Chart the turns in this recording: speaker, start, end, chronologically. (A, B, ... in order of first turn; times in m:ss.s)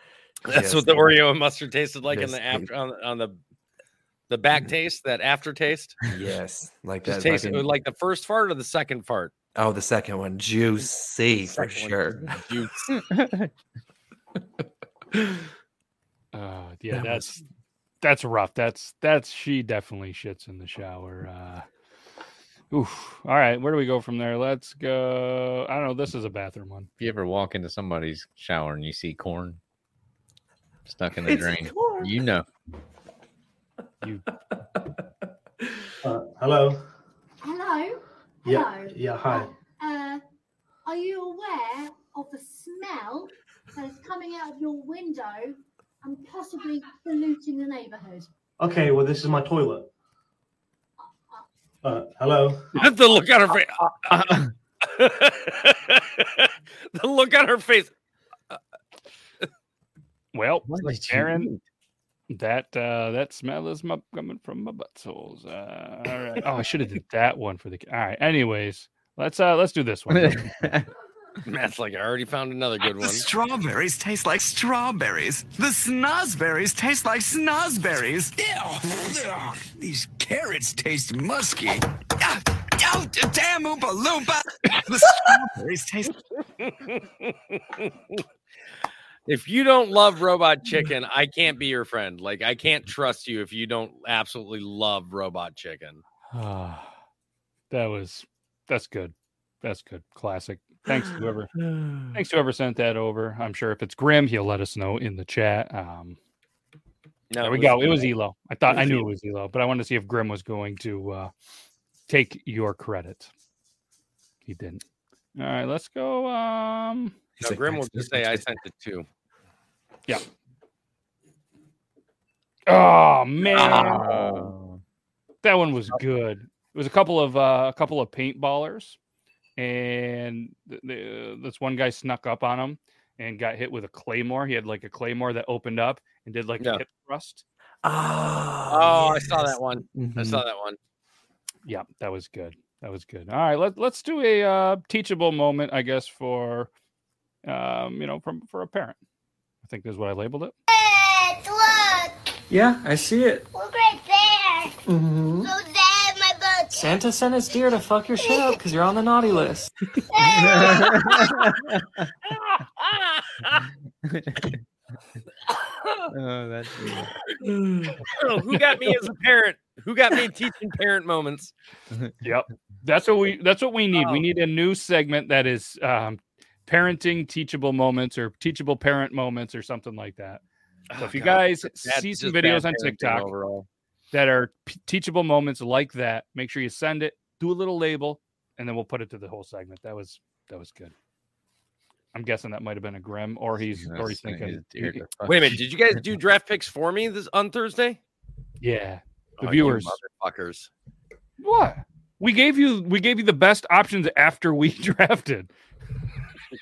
0:00.4-0:01.2 A
0:00.5-0:03.4 B
0:02.1-0:02.7 A
0:04.3-0:06.0 B
0:06.1-0:07.6 A
0:07.1-0:09.3 B
0:09.6-0:12.4 A
0:11.5-0:12.9 B
0:12.9-0:13.5 C
0:15.1-0:15.5 A
0:16.3-0:17.4 D
0:16.9-0:17.2 A
0:18.0-0:21.7 D
0:22.7-0:26.9 D
0:27.0-0:29.6 C
0:30.9-0:32.4 C
0:31.3-0:32.1 A
0:34.0-0:34.3 D
0:36.0-0:36.8 E
0:37.4-0:40.2 F
0:38.4-0:39.5 E
0:40.9-0:48.3 F
0:48.6-0:49.9 E
0:51.8-0:52.7 E
0:52.8-0:57.9 B
0:54.2-0:54.5 C
1:00.3-1:01.5 D
1:00.7-1:01.5 C
1:02.3-1:10.5 D
1:10.1-1:10.9 C
1:11.4-1:13.2 B
1:13.0-1:26.2 G
1:26.6-1:28.2 B
1:29.3-1:36.0 B
1:36.3-1:37.0 D
1:37.7-1:41.5 D
1:40.9-1:42.2 A
1:42.1-1:46.2 D
1:47.3-1:48.1 B
1:47.4-1:51.3 D
1:48.7-1:49.0 B
1:52.1-1:53.3 D
1:54.5-1:54.8 D
1:55.4-1:57.2 D
1:57.4-1:58.4 A
1:57.4-1:59.1 B
2:02.7-2:04.1 D
2:03.6-2:04.5 B
2:03.6-2:04.8 C
2:05.4-2:09.0 D
2:09.6-2:17.4 D
2:17.8-2:20.4 A
2:18.7-2:20.8 B
2:21.6-2:26.7 D
2:27.4-2:29.0 D
2:29.6-2:30.6 D
2:30.7-2:32.1 H
2:32.5-2:33.5 I
2:33.5-2:34.8 H
2:34.9-2:35.5 I
2:35.4-2:36.8 H
2:36.8-2:39.7 I
2:40.1-2:40.9 H
2:40.8-2:41.8 C
2:42.8-2:43.6 B
2:44.1-2:44.6 C
2:46.1-2:47.1 C
2:47.4-2:48.0 A
2:48.1-2:51.5 B
2:52.2-3:00.4 D
2:54.0-2:54.2 B
3:00.9-3:03.7 B
3:01.0-3:03.3 D
3:04.1-3:10.9 D
3:12.1-3:15.1 D
3:13.8-3:15.6 C
3:15.3-3:18.0 B
3:18.6-3:20.0 D
3:19.4-3:20.7 B
3:21.4-3:25.5 D